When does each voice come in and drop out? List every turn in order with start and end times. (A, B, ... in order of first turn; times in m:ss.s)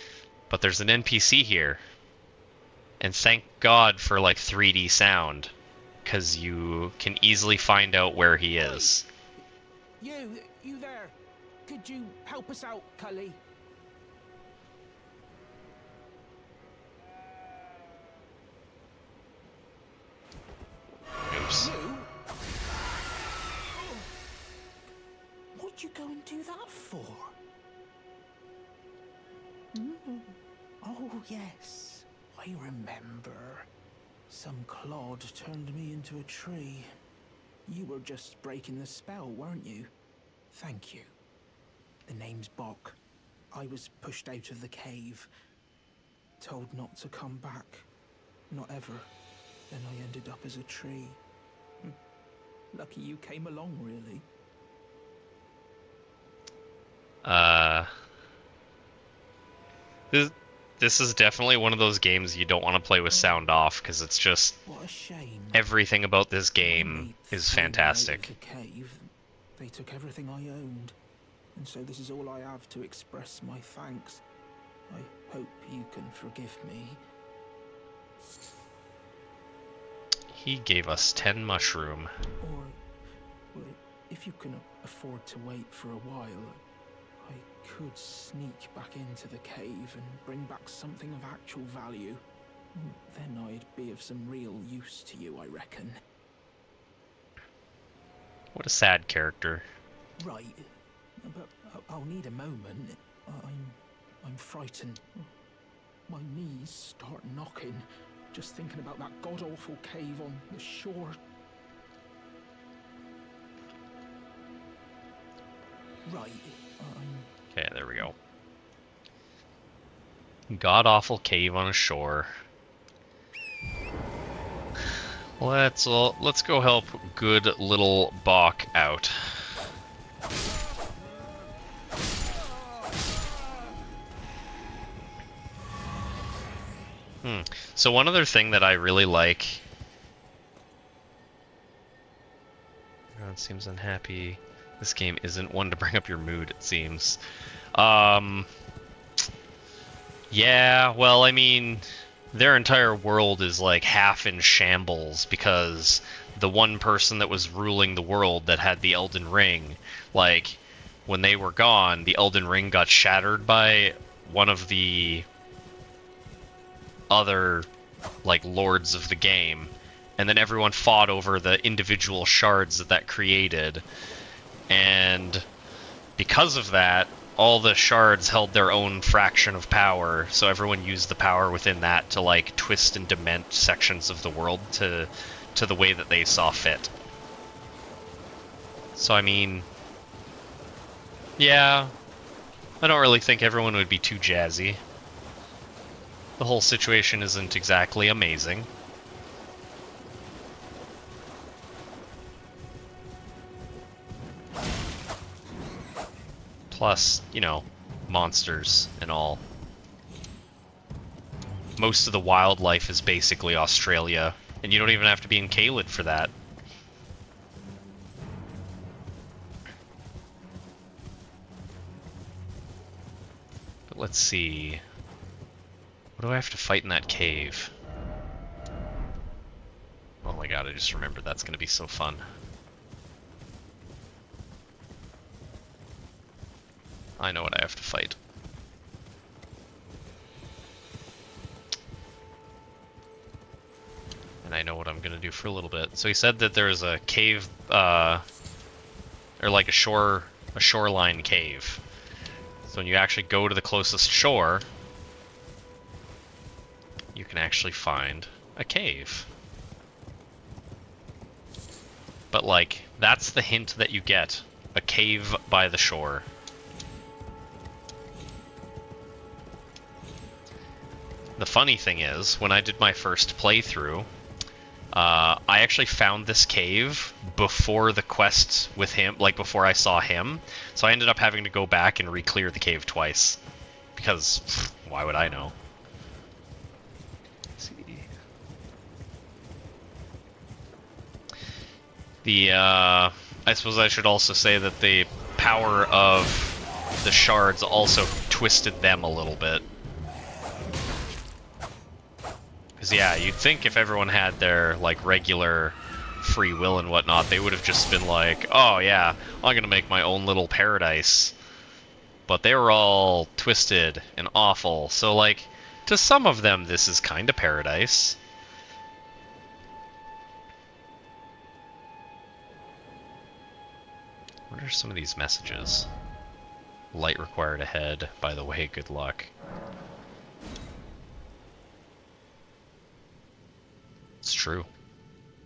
0:00.5-0:01.8 A
0:03.0-0:05.5 A
0:06.0-0:09.0 A
0:08.6-0:08.9 B
0:10.0-0:13.4 B
0:21.3-0:21.7 A
0:21.5-0:22.1 B
0:23.7-0:24.1 B
0:25.5-0:27.4 B
0:29.7-0:33.7 B
0:34.3-0:36.9 B
0:37.7-0:39.9 B
0:40.5-0:41.1 B
0:42.1-0:43.0 B
0:43.5-0:45.3 B
0:46.4-0:47.9 B
0:48.5-0:49.1 B
0:49.7-0:51.2 B
0:52.7-0:54.2 B
0:57.2-0:57.9 A
1:00.1-1:04.6 A
1:03.1-1:03.4 B
1:04.6-1:05.6 B
1:05.5-1:08.3 A
1:06.6-1:11.0 B
1:11.5-1:14.2 B
1:14.9-1:17.0 B
1:20.3-1:22.1 A
1:22.4-1:22.8 B
1:23.5-1:26.6 B
1:27.2-1:32.2 B
1:32.7-1:36.0 B
1:38.5-1:39.6 A
1:40.2-1:40.7 B
1:41.2-1:45.1 B
1:46.1-1:51.2 B
1:56.0-1:57.3 B
1:57.5-1:58.1 A
2:00.5-2:02.3 A
2:05.4-2:09.2 A
2:17.2-2:19.6 A
2:23.1-2:27.2 A
2:27.8-2:28.5 A
2:30.3-2:45.3 A
2:47.1-2:47.7 A
2:48.2-2:53.8 A
2:54.7-2:55.4 A
2:56.2-3:06.9 A
3:09.0-3:09.7 A
3:11.4-3:11.9 A
3:12.8-3:14.8 A
3:16.4-3:18.7 A
3:26.7-3:29.4 A
3:31.8-3:36.3 A
3:43.9-3:44.8 A
3:46.2-3:47.7 A
3:50.2-3:52.2 A
3:57.2-3:58.2 A
4:04.4-4:08.2 A
4:09.4-4:11.8 A
4:12.6-4:14.7 A
4:17.1-4:19.3 A
4:22.3-4:26.3 A
4:31.4-4:34.1 A
4:34.9-4:43.4 A
4:43.9-4:45.6 A
4:47.6-4:48.1 A
4:52.2-4:59.6 A
5:02.8-5:11.3 A
5:12.3-5:18.2 A
5:24.5-5:25.9 A
5:26.9-5:29.3 A
5:34.2-5:34.7 A